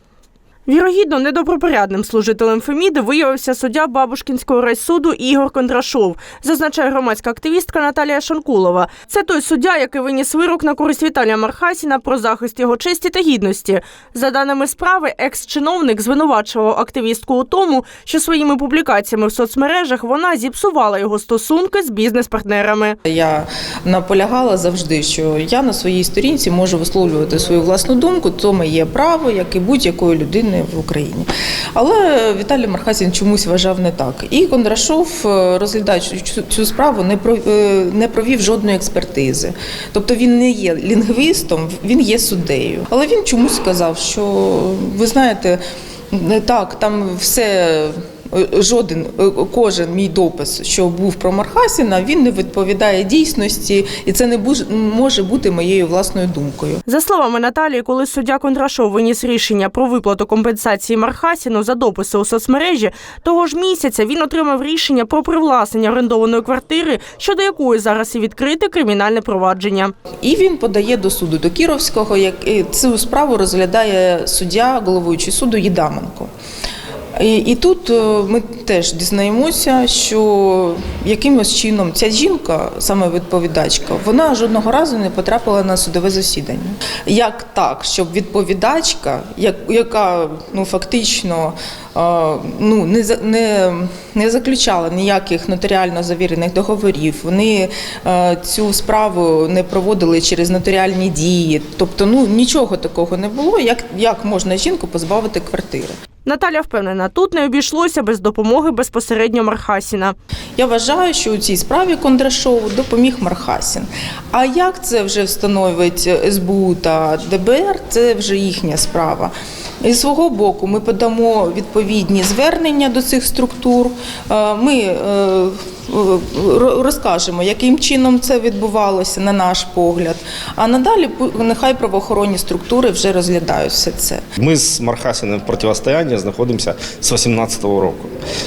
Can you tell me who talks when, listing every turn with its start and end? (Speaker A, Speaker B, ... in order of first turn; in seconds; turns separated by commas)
Speaker A: 0.7-23.0, Speaker B: 23.1-45.6, Speaker B: 46.1-56.8, Speaker A: 56.9-69.9, Speaker B: 70.2-76.3, Speaker B: 77.2-106.0, Speaker A: 106.2-110.2, Speaker B: 110.6-134.2, Speaker C: 134.4-138.1